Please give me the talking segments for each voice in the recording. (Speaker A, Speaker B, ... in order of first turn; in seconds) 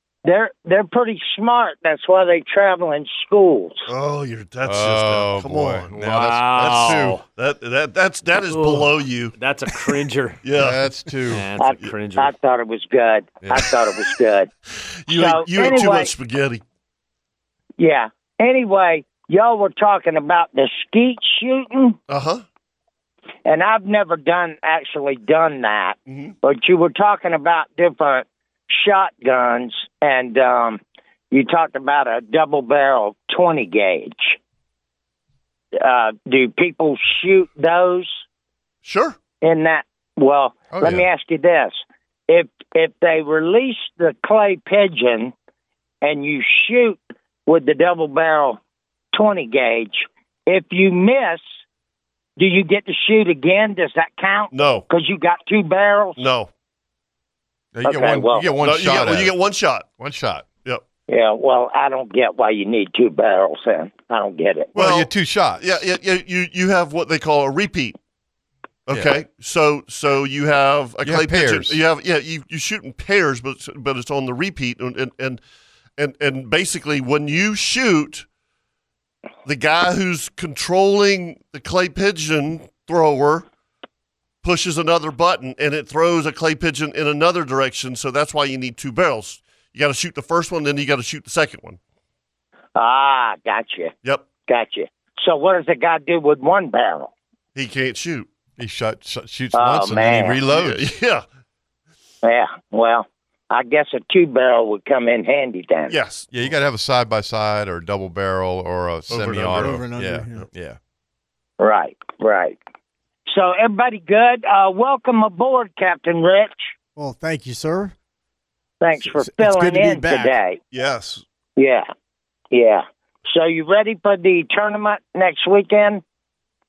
Speaker A: 0.2-3.9, 11.6-14.5, 15.1-16.1, 17.8-22.0, 23.4-34.4, 35.8-38.2, 39.4-45.3, 46.0-48.6, 49.1-51.4, 52.4-56.2, 57.8-58.5, 61.1-64.7, 92.7-93.9, 94.4-97.1, 99.5-100.4, 102.2-105.9, 111.6-112.6, 113.3-116.7, 118.8-120.6, 121.6-121.9, 122.5-126.0
Speaker B: 3.9-9.3, 10.4-10.8, 15.1-16.6, 22.1-22.4, 26.1-26.3, 38.8-39.2, 54.5-54.9, 56.2-56.5, 58.6-59.9, 64.8-68.0, 68.9-75.4, 76.0-78.2, 79.4-83.5, 84.4-91.8, 97.5-98.3, 100.5-101.2, 105.9-106.5, 109.1-109.8, 120.7-121.2
Speaker C: 4.6-7.2, 10.5-11.4, 40.7-41.0, 57.7-59.3, 60.0-60.5, 64.7-65.8, 68.9-69.2, 71.0-71.8, 98.6-100.8, 106.3-110.8
Speaker D: 6.1-7.2, 8.5-10.4, 11.3-12.3
Speaker E: 109.5-110.4, 117.0-117.9, 119.0-120.4